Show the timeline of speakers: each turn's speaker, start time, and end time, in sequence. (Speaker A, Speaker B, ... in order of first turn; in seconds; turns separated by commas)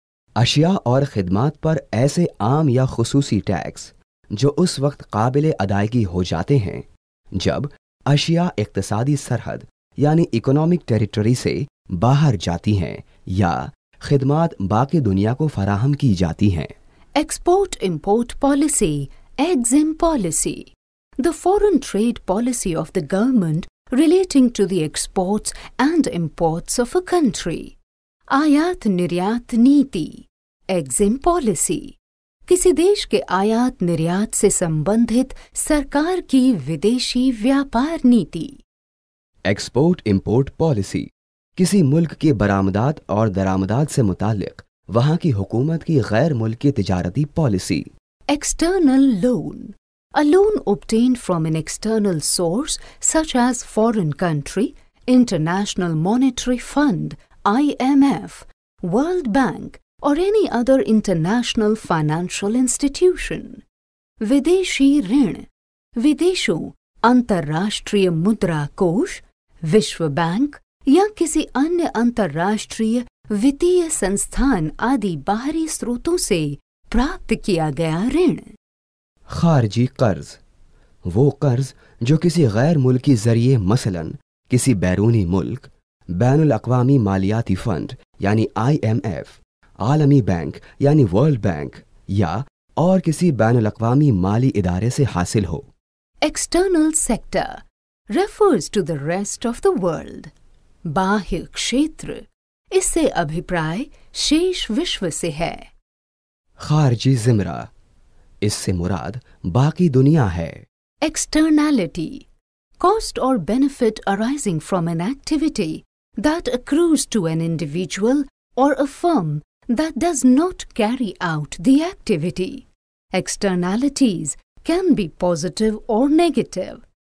Speaker A: 0.4-6.8, Speaker A: 7.4-16.7, Speaker B: 17.2-27.7, Speaker B: 28.3-38.6, Speaker A: 39.5-47.9, Speaker B: 48.3-63.6, Speaker B: 64.2-78.5, Speaker A: 79.3-80.4, Speaker A: 81.0-95.7, Speaker B: 96.2-100.3, Speaker B: 100.9-105.7, Speaker A: 106.6-107.7, Speaker A: 108.4-110.7, Speaker B: 111.0-112.2, Speaker B: 112.8-126.8